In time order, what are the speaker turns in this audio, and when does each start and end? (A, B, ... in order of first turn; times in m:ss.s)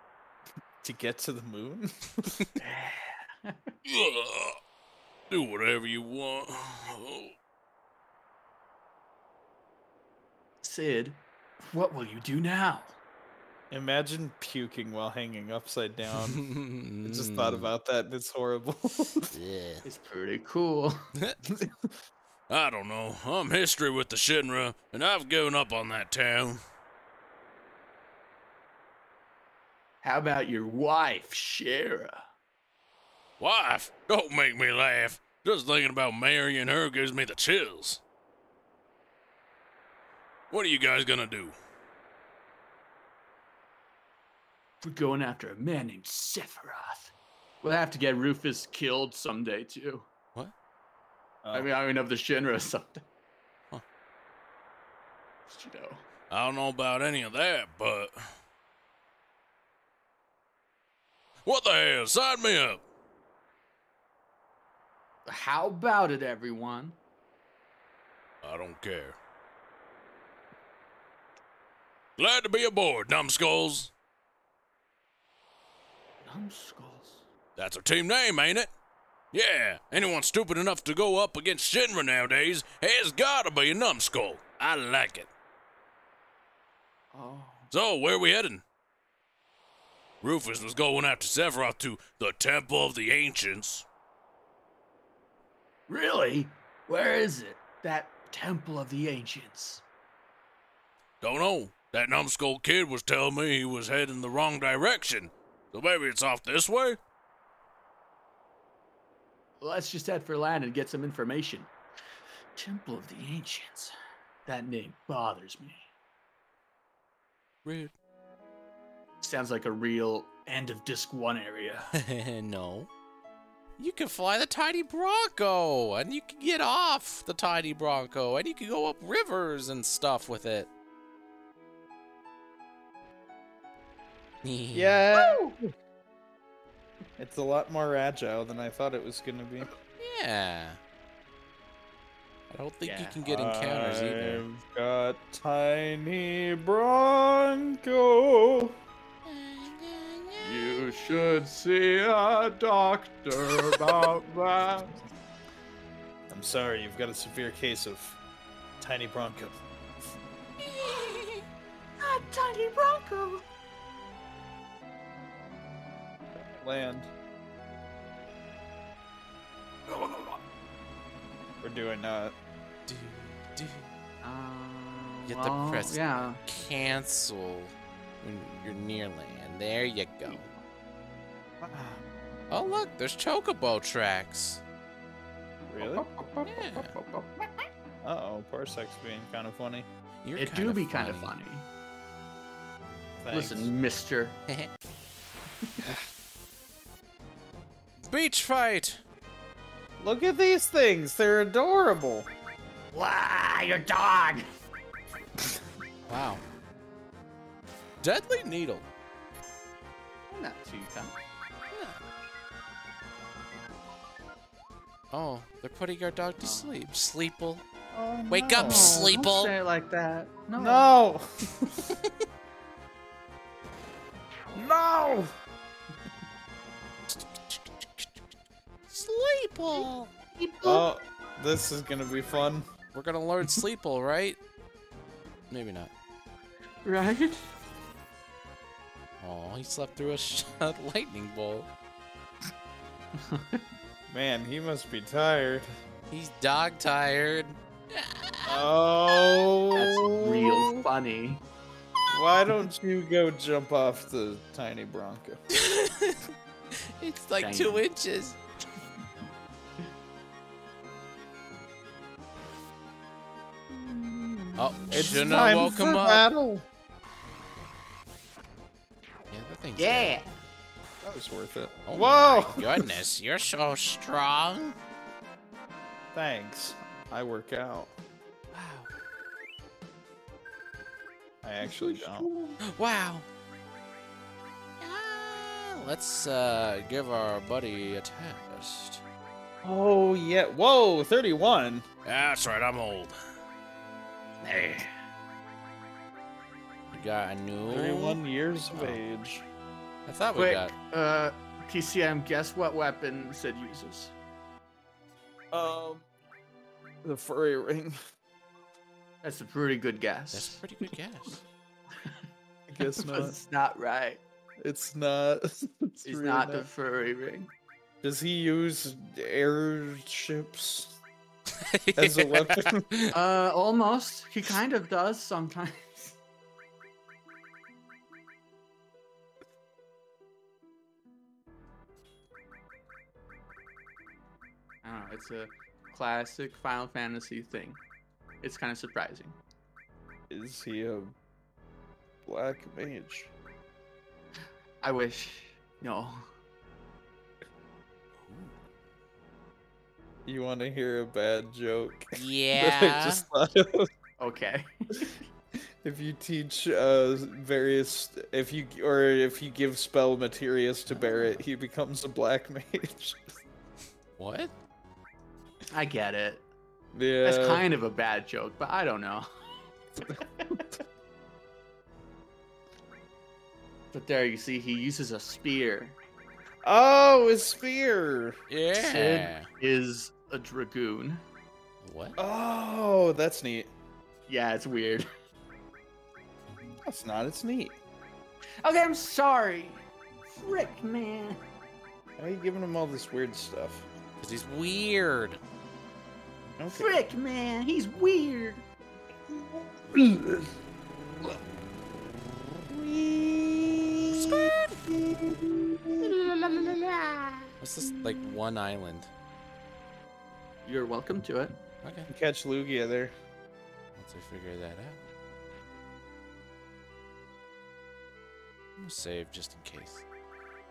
0:00.8-0:02.3 A
0:02.6-0:03.7 B
0:03.8-0:04.6 C
0:05.3-0:07.3 C
0:10.6-0:12.9 B
0:13.7-0:16.4 A
0:16.3-0:17.7 D
0:17.0-0:19.3 A
0:19.3-0:19.8 D
0:19.8-0:21.0 B
0:21.5-0:21.9 A
0:22.5-0:26.6 C
0:30.0-0:32.2 B
0:33.4-0:38.0 C
0:40.5-0:41.5 C
0:44.8-0:50.1 B
0:51.5-0:53.0 B
0:55.5-0:56.0 B
0:56.3-0:58.3 C
1:01.4-1:02.8 C
1:05.2-1:07.0 B
1:08.4-1:09.2 C
1:12.2-1:13.9 C
1:16.2-1:17.2 B
1:17.6-1:18.7 C
1:19.3-1:25.3 C
1:27.1-1:27.7 B
1:27.7-1:28.6 C
1:30.2-1:33.8 C
1:35.9-1:39.8 B
1:41.2-1:47.0 C
1:49.6-1:51.7 B
1:52.6-1:53.9 B
1:54.4-1:55.9 B
1:57.6-1:57.9 D
1:59.2-2:01.9 B
2:01.9-2:02.9 D
2:03.8-2:10.7 D
2:14.4-2:15.0 D
2:14.7-2:15.7 A
2:15.1-2:15.5 B
2:17.2-2:19.7 A
2:20.0-2:20.8 D
2:22.5-2:24.4 D
2:22.8-2:23.2 B
2:23.2-2:28.8 A
2:29.2-2:30.8 D
2:30.4-2:34.7 B
2:34.0-2:34.9 A
2:36.3-2:38.2 A
2:38.8-2:39.6 A
2:40.7-2:41.4 D
2:40.8-2:41.2 B
2:42.0-2:43.4 B
2:46.3-2:47.1 A
2:49.9-2:50.4 B
2:51.6-2:52.3 A
2:52.9-2:53.9 D
2:54.2-2:56.4 B
2:55.2-3:00.5 D
3:00.2-3:00.5 B
3:01.6-3:02.0 A
3:02.5-3:04.6 D
3:05.7-3:07.5 B
3:05.7-3:06.0 A
3:06.4-3:06.9 D
3:08.0-3:09.9 A
3:10.2-3:11.3 D
3:10.4-3:11.6 B
3:13.2-3:13.7 A
3:13.3-3:14.4 B
3:18.0-3:19.0 D
3:20.0-3:22.3 A
3:22.9-3:24.4 B
3:26.1-3:26.4 D
3:28.0-3:28.8 D
3:30.3-3:31.2 B
3:31.7-3:32.0 D
3:35.1-3:37.6 D
3:36.4-3:36.9 B
3:37.9-3:39.0 A
3:38.3-3:39.5 D
3:38.6-3:40.9 B
3:40.6-3:41.8 A
3:44.6-3:45.3 B
3:47.1-3:48.1 D
3:48.9-3:50.1 D
3:49.7-3:50.9 B
3:50.6-3:52.7 A
3:52.9-3:54.4 D
3:55.5-3:55.9 D
3:56.8-3:57.4 B
3:59.2-4:01.7 D
4:03.1-4:03.6 B
4:04.1-4:05.7 A
4:06.1-4:08.6 D
4:08.4-4:10.8 A
4:09.7-4:11.4 B
4:12.1-4:15.4 A
4:15.5-4:16.2 D
4:17.0-4:18.4 D
4:17.4-4:17.8 B
4:23.7-4:24.6 B
4:24.6-4:26.2 D
4:24.9-4:26.6 A
4:29.3-4:30.2 D
4:29.8-4:30.3 B
4:31.0-4:32.9 A
4:31.9-4:34.8 D
4:36.1-4:37.9 A
4:38.5-4:38.9 D
4:41.4-4:42.3 A
4:41.6-4:42.6 B
4:42.6-4:43.2 D
4:44.8-4:49.0 D
4:49.6-4:51.8 A
4:52.0-4:53.1 C
4:54.4-4:54.9 B
4:54.5-4:54.8 D
4:56.9-4:58.2 D
4:57.7-4:59.4 A
4:58.7-4:59.0 D
5:00.0-5:00.7 D
5:00.4-5:04.1 B
5:05.5-5:06.0 A
5:07.0-5:08.0 A
5:09.2-5:10.6 B
5:10.3-5:11.4 D
5:12.7-5:13.4 A
5:12.9-5:14.2 B
5:14.6-5:16.7 A
5:16.0-5:17.5 B
5:18.0-5:21.0 A
5:21.6-5:23.1 D
5:22.0-5:22.8 A
5:23.1-5:26.1 B
5:34.8-5:37.8 B
5:38.4-5:39.4 B
5:40.3-5:41.1 A
5:42.2-5:43.3 A
5:44.8-5:46.2 B
5:50.2-5:53.9 A
5:52.1-5:53.2 D
5:54.2-5:55.2 B
5:55.8-6:03.2 A
6:01.0-6:01.3 B
6:04.2-6:04.5 D
6:05.7-6:06.4 B
6:06.9-6:07.6 A
6:07.2-6:09.2 B
6:10.0-6:10.6 B
6:13.9-6:16.0 B
6:16.6-6:18.4 A
6:18.5-6:19.5 D
6:18.8-6:21.2 B
6:21.8-6:22.2 D
6:22.2-6:23.7 A
6:24.3-6:25.1 B
6:26.8-6:27.8 A
6:28.6-6:29.8 B
6:30.4-6:31.4 B
6:32.2-6:33.8 A
6:34.2-6:35.4 D
6:36.6-6:37.0 A
6:36.7-6:38.6 B
6:44.1-6:44.8 D
6:44.1-6:47.4 B
6:44.9-6:45.4 A
6:47.6-6:49.1 D
6:50.6-6:51.6 B
6:51.8-6:52.1 D
6:52.1-6:53.1 A
6:54.0-6:55.0 D
6:58.8-7:00.0 D